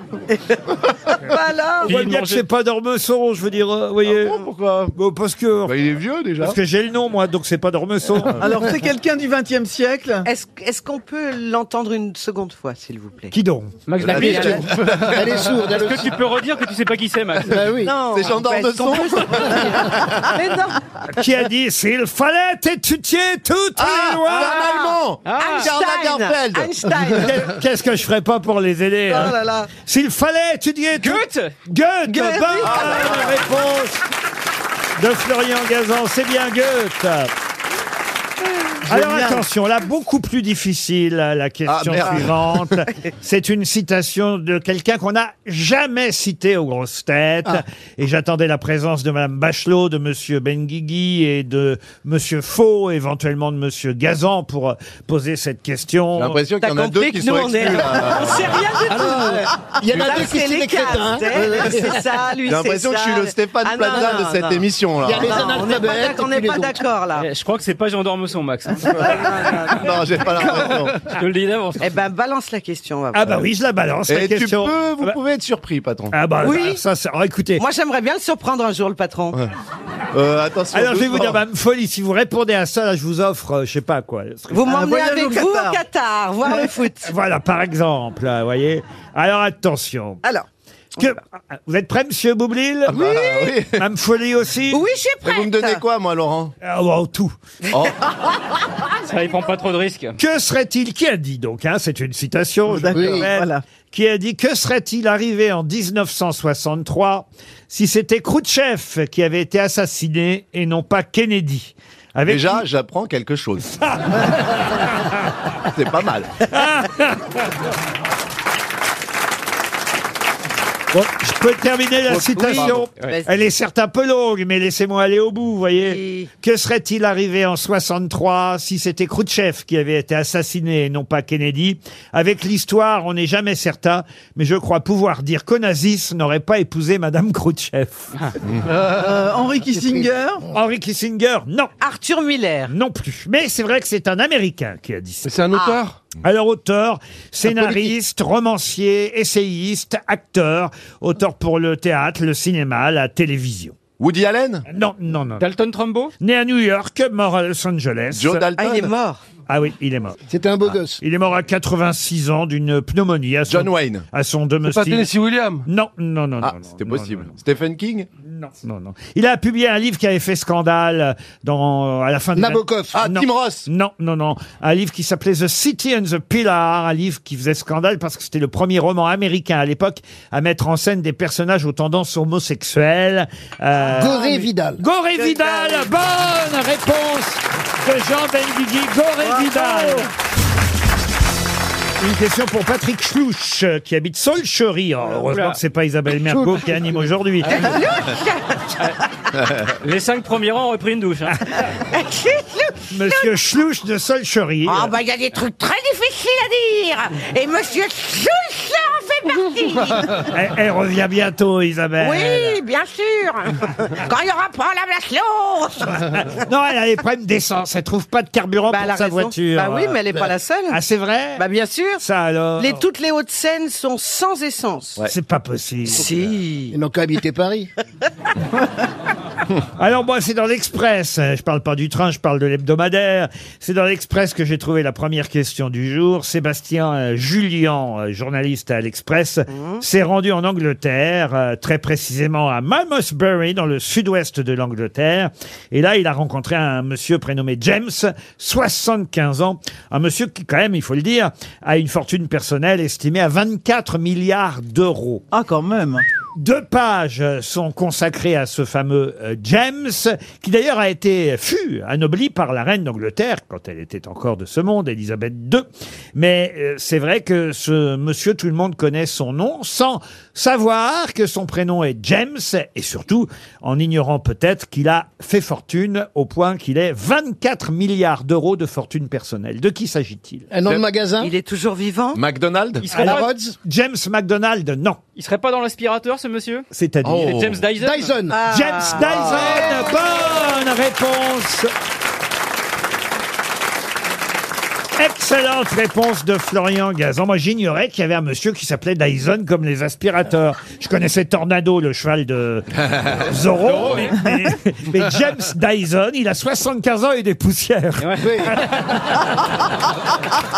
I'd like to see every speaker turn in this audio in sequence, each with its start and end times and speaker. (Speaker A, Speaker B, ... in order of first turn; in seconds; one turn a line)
Speaker A: 1.3-1.9
Speaker B: 1.8-2.5
Speaker C: 1.9-4.4
Speaker D: 4.0-5.0
Speaker C: 5.0-5.8
Speaker D: 5.7-6.6
Speaker C: 6.4-8.5
Speaker E: 8.3-10.3
Speaker A: 10.2-13.3
Speaker C: 13.3-14.3
Speaker B: 13.9-17.6
Speaker D: 14.1-15.2
Speaker F: 14.1-16.1
Speaker F: 17.5-17.9
Speaker A: 17.8-20.8
Speaker D: 18.1-20.1
Speaker C: 21.1-24.6
Speaker D: 23.8-26.7
Speaker A: 24.3-27.5
Speaker B: 25.2-25.7
Speaker C: 27.1-34.0
Speaker A: 29.1-29.7
Speaker B: 30.9-31.6
Speaker A: 32.1-33.3
Speaker D: 32.6-33.5
Speaker C: 35.0-37.3
Speaker C: 38.9-56.4
Speaker E: 38.9-39.4
Speaker A: 39.0-39.3
Speaker D: 41.7-42.6
Speaker D: 56.1-58.6
Speaker A: 56.6-64.7
Speaker F: 58.9-62.0
Speaker D: 62.5-65.5
Speaker F: 65.0-66.8
Speaker A: 65.2-67.3
Speaker B: 67.2-72.0
Speaker A: 69.2-69.7
Speaker D: 69.8-71.0
Speaker A: 71.8-73.4
Speaker C: 73.1-75.2
Speaker D: 74.1-76.2
Speaker C: 76.1-77.6
Speaker A: 76.4-76.8
Speaker A: 77.6-79.4
Speaker D: 80.1-81.4
Speaker C: 80.7-84.7
Speaker A: 84.5-87.1
Speaker E: 84.7-85.8
Speaker C: 87.0-90.2
Speaker C: 91.0-93.1
Speaker D: 92.9-93.8
Speaker C: 93.7-94.8
Speaker A: 94.7-95.8
Speaker D: 95.2-96.5
Speaker C: 96.6-97.3
Speaker B: 99.1-100.2
Speaker C: 100.2-112.6
Speaker E: 102.7-103.6
Speaker F: 102.9-103.3
Speaker D: 112.3-113.7
Speaker C: 113.8-114.9
Speaker D: 115.7-116.4
Speaker C: 116.5-117.4
Speaker C: 120.9-138.1
Speaker D: 122.1-122.8
Speaker A: 122.3-123.3
Speaker B: 122.6-123.2
Speaker A: 125.8-126.3
Speaker E: 138.8-140.4
Speaker F: 139.7-140.1
Speaker C: 140.5-141.7
Speaker A: 141.8-142.7
Speaker C: 142.7-145.3
Speaker G: 145.2-146.1
Speaker C: 146.2-153.8
Speaker D: 154.0-154.7
Speaker C: 154.7-155.5
Speaker B: 155.4-156.1
Speaker C: 156.2-158.5
Speaker D: 158.1-158.9
Speaker A: 158.6-159.2
Speaker C: 159.5-160.2
Speaker F: 160.3-161.0
Speaker C: 161.0-165.1
Speaker D: 163.5-164.1
Speaker G: 164.6-165.7
Speaker C: 165.7-167.3
Speaker D: 166.4-168.1
Speaker C: 168.3-190.1
Speaker F: 172.4-173.0
Speaker D: 172.9-173.7
Speaker F: 183.9-184.8
Speaker A: 184.1-184.4
Speaker A: 185.2-185.9
Speaker A: 189.3-189.9
Speaker C: 192.0-197.7
Speaker B: 195.1-195.6
Speaker F: 196.3-196.9
Speaker B: 197.4-197.8
Speaker A: 197.5-198.7
Speaker B: 199.8-201.4
Speaker A: 201.9-203.3
Speaker C: 202.9-204.9
Speaker A: 204.7-210.2
Speaker C: 210.3-212.6
Speaker A: 212.0-216.2
Speaker C: 216.1-220.0
Speaker A: 218.7-220.8
Speaker C: 220.7-221.4
Speaker A: 221.4-222.0
Speaker C: 222.0-222.8
Speaker A: 222.6-225.0
Speaker C: 225.1-226.3
Speaker A: 225.9-226.8
Speaker F: 226.7-227.7
Speaker C: 229.8-255.2
Speaker A: 239.5-239.8
Speaker E: 255.3-256.0
Speaker C: 256.4-280.5
Speaker F: 280.5-281.3
Speaker A: 281.2-282.2
Speaker D: 282.1-282.9
Speaker B: 282.8-283.3
Speaker C: 282.9-285.0
Speaker F: 283.0-283.6
Speaker B: 285.1-288.1
Speaker C: 286.7-287.5
Speaker D: 287.1-287.6
Speaker F: 287.8-288.4
Speaker A: 288.3-289.9
Speaker C: 288.5-291.7
Speaker C: 295.0-309.2
Speaker B: 303.6-304.3
Speaker B: 308.0-308.5
Speaker F: 308.2-308.6